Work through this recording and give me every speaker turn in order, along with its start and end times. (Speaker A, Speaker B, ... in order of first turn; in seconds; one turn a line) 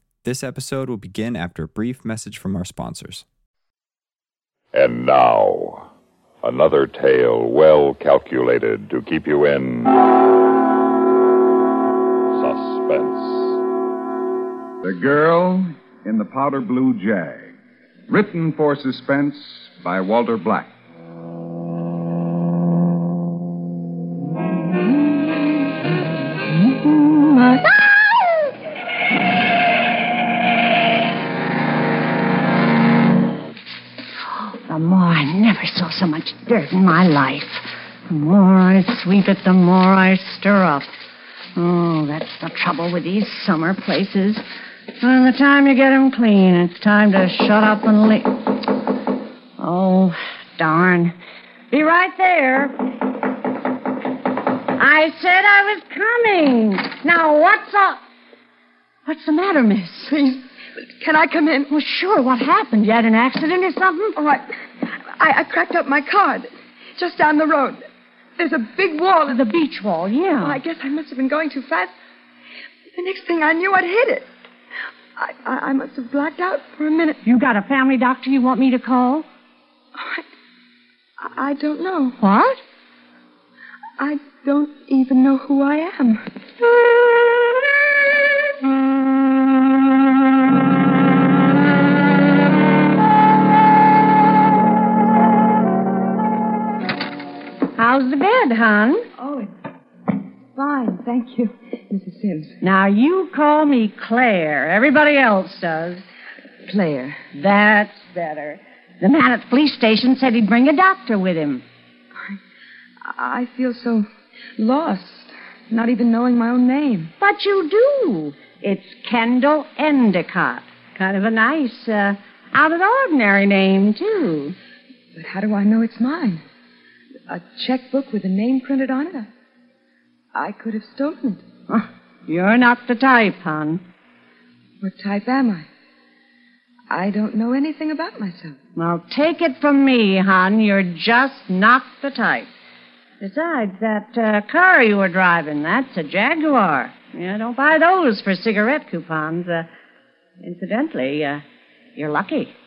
Speaker A: 0.2-3.2
Speaker B: 4.7-5.9
Speaker B: 6.4-9.9
Speaker B: 12.3-13.5
Speaker C: 14.8-17.5
Speaker C: 18.1-20.7
Speaker D: 27.3-27.6
Speaker E: 34.3-40.9
Speaker E: 41.5-44.4
Speaker E: 45.0-48.5
Speaker E: 49.6-51.1
Speaker E: 51.7-52.7
Speaker E: 54.8-58.0
Speaker E: 59.0-60.1
Speaker D: 60.0-61.7
Speaker E: 61.7-64.2
Speaker D: 64.2-64.5
Speaker D: 65.2-67.8
Speaker D: 68.4-69.4
Speaker E: 69.3-70.6
Speaker D: 70.4-71.9
Speaker D: 72.9-74.3
Speaker D: 75.2-77.2
Speaker E: 77.2-79.2
Speaker D: 79.9-80.2
Speaker D: 81.2-82.2
Speaker E: 82.2-82.6
Speaker D: 84.0-86.2
Speaker E: 97.8-99.1
Speaker D: 99.2-99.5
Speaker D: 100.5-102.5
Speaker E: 102.6-106.0
Speaker D: 106.7-107.2
Speaker E: 107.3-111.6
Speaker D: 113.0-117.1
Speaker E: 117.2-124.5
Speaker D: 125.1-126.4
Speaker D: 127.3-129.3
Speaker D: 130.3-131.4
Speaker E: 131.7-133.8
Speaker D: 134.8-135.7
Speaker D: 136.9-138.6
Speaker E: 138.8-142.5
Speaker E: 143.2-149.7
Speaker E: 150.4-151.4
Speaker E: 151.9-152.5